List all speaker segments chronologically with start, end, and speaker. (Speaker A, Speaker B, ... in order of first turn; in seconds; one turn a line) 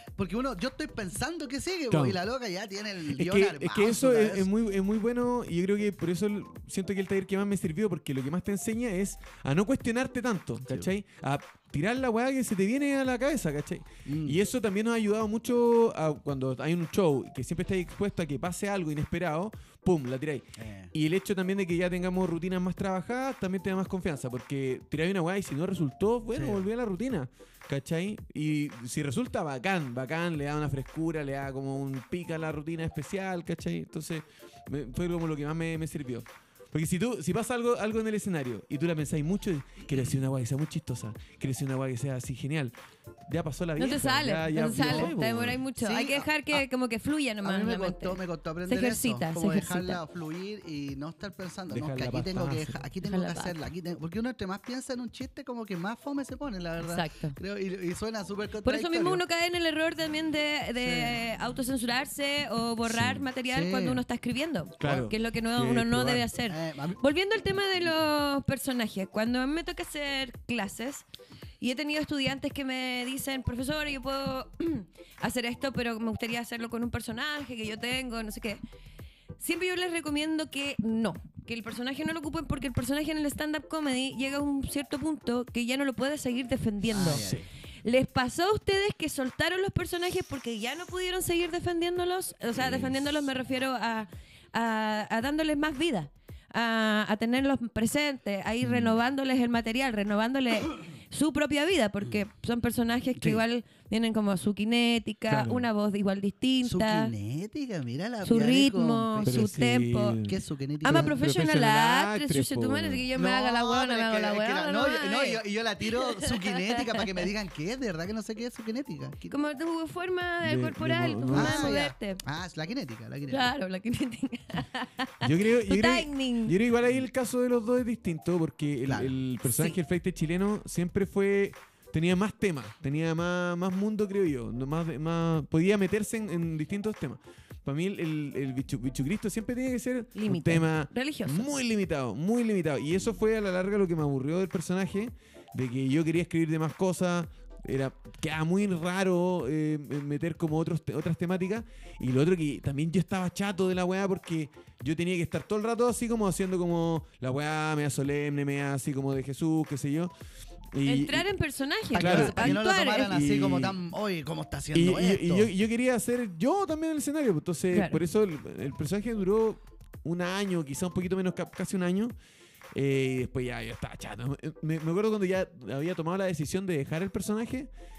Speaker A: 0.2-4.5
Speaker B: 1.9-2.2
Speaker B: 3.1-42.7
Speaker A: 14.1-14.4
Speaker A: 20.6-20.9
Speaker A: 26.3-26.7
Speaker B: 43.3-45.6
Speaker C: 43.8-50.0
Speaker A: 44.7-45.1
Speaker A: 45.8-46.6
Speaker A: 47.4-59.2
Speaker B: 51.7-52.8
Speaker C: 53.0-53.6
Speaker C: 56.8-57.4
Speaker C: 58.6-71.1
Speaker A: 60.8-61.2
Speaker B: 62.9-63.2
Speaker A: 63.5-64.0
Speaker B: 64.8-66.3
Speaker A: 66.5-67.0
Speaker C: 71.6-78.6
Speaker C: 79.4-87.3
Speaker A: 86.9-87.5
Speaker B: 87.2-87.5
Speaker C: 87.8-107.1
Speaker B: 92.6-93.1
Speaker B: 98.6-99.0
Speaker B: 105.3-105.7
Speaker A: 106.6-109.5
Speaker C: 108.2-110.2
Speaker B: 109.3-113.1
Speaker A: 110.3-111.2
Speaker C: 110.8-117.2
Speaker A: 113.2-119.3
Speaker C: 119.3-122.2
Speaker B: 120.4-121.8
Speaker A: 121.3-123.5
Speaker C: 123.3-126.6
Speaker B: 125.2-160.1
Speaker A: 128.9-129.2
Speaker C: 129.5-129.8
Speaker C: 140.1-141.5
Speaker B: 160.7-161.3
Speaker C: 160.8-163.2
Speaker A: 161.9-165.5
Speaker B: 162.0-163.8
Speaker B: 164.7-172.1
Speaker C: 167.7-168.0
Speaker B: 172.7-177.7